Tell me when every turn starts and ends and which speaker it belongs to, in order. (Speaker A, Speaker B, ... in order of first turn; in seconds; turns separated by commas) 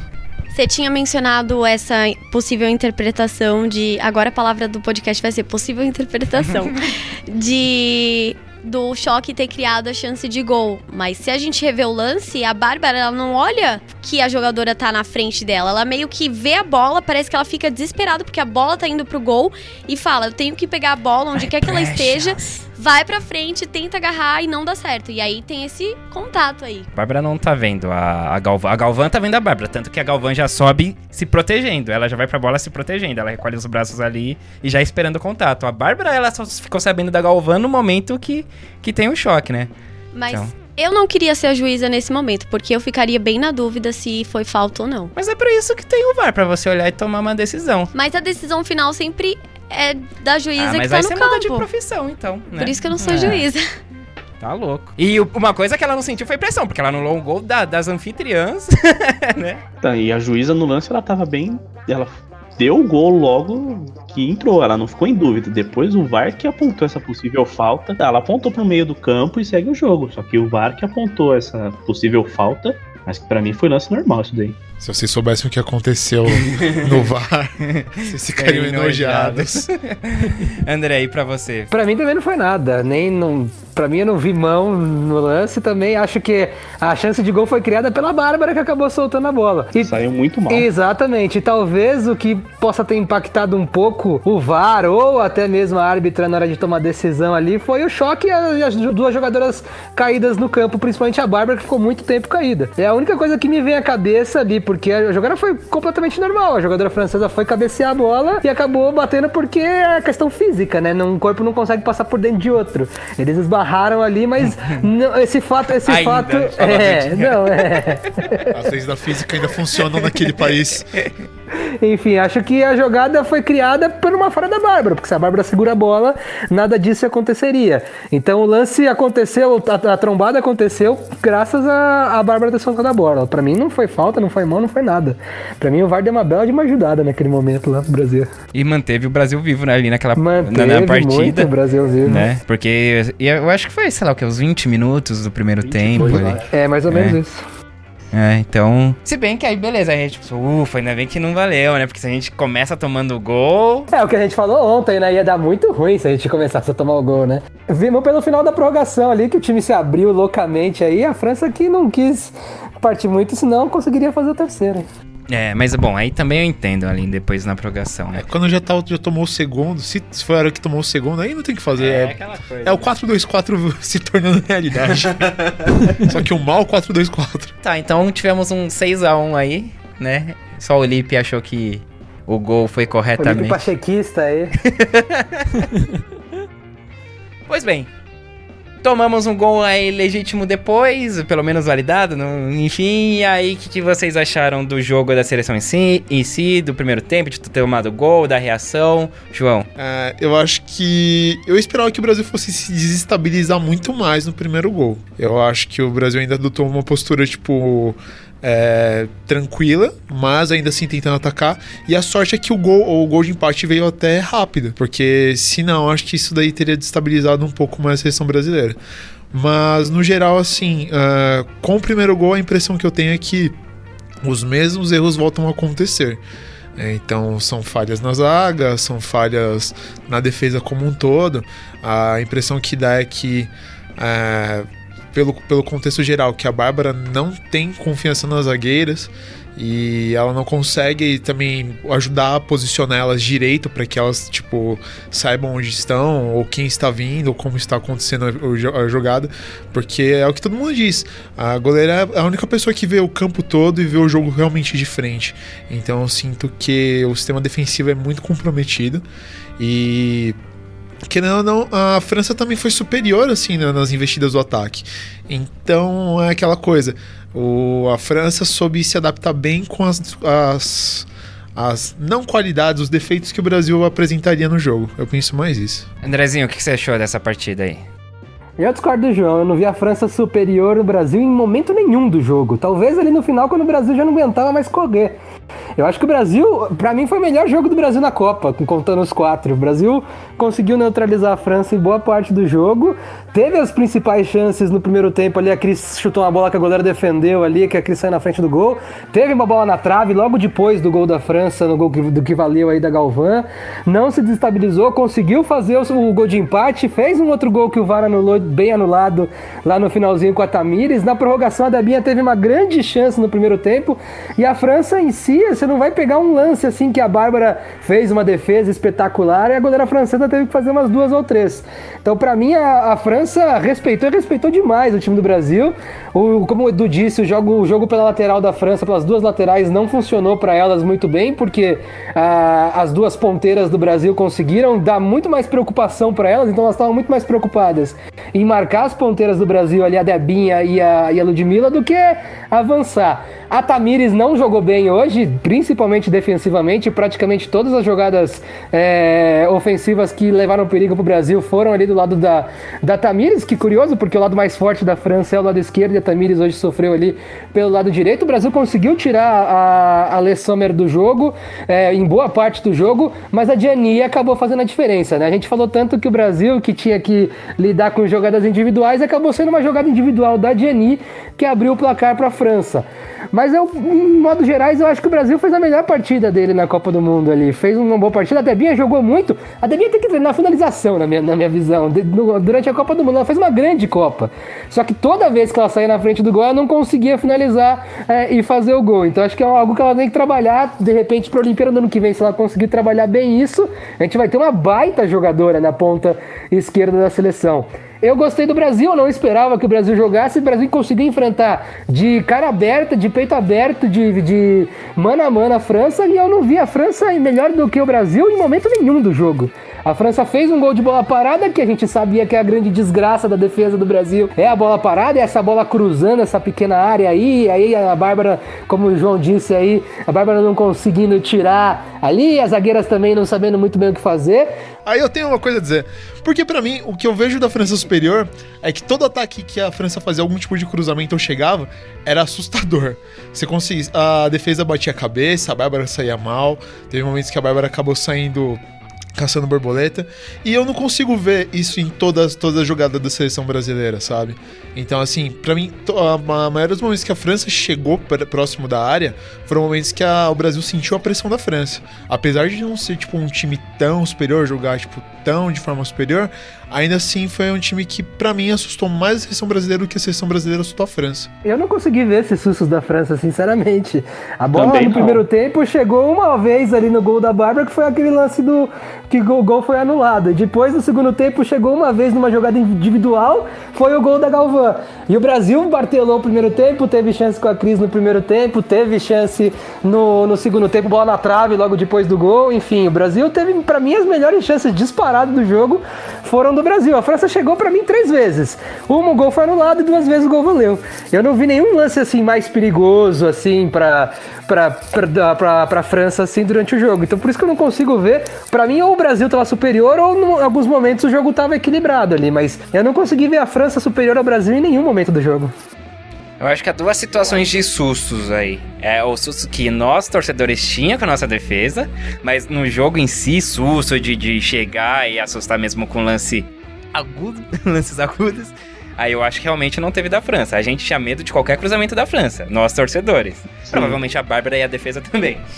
Speaker A: 0.5-26.9, Speaker B: 21.4-22.4, Speaker B: 26.9-39.7, Speaker A: 40.1-45.1, Speaker B: 45.1-47.9, Speaker A: 47.9-51.7, Speaker B: 50.6-53.4, Speaker A: 52.6-53.6, Speaker B: 54.4-59.6, Speaker C: 59.8-74.6, Speaker D: 74.8-79.7, Speaker B: 76.3-77.0, Speaker B: 77.7-81.7, Speaker E: 81.7-89.9, Speaker C: 89.8-90.7, Speaker E: 90.5-118.5, Speaker B: 114.4-114.8, Speaker B: 115.7-118.3, Speaker D: 118.5-121.0, Speaker B: 119.8-120.2, Speaker E: 121.8-138.3, Speaker B: 138.5-141.5, Speaker E: 140.2-142.3, Speaker B: 142.0-147.2, Speaker C: 145.6-146.5, Speaker E: 146.0-147.4, Speaker B: 148.1-153.9, Speaker E: 153.9-164.9, Speaker B: 165.3-168.3, Speaker D: 168.1-175.3, Speaker B: 171.8-172.9, Speaker B: 175.2-176.1, Speaker D: 176.0-177.5, Speaker B: 177.6-183.7, Speaker E: 183.2-184.5, Speaker B: 184.6-185.7, Speaker B: 187.5-187.9, Speaker B: 188.8-199.7, Speaker D: 199.8-218.8, Speaker D: 219.3-223.5, Speaker D: 224.2-226.2, Speaker D: 226.8-259.0, Speaker D: 259.6-260.4, Speaker D: 261.0-275.9, Speaker B: 276.0-277.8, Speaker E: 278.6-285.1, Speaker E: 285.8-424.5, Speaker D: 424.8-438.6, Speaker D: 439.1-461.3, Speaker E: 461.4-505.5, Speaker C: 464.5-465.2, Speaker B: 506.4-525.4, Speaker C: 523.6-524.0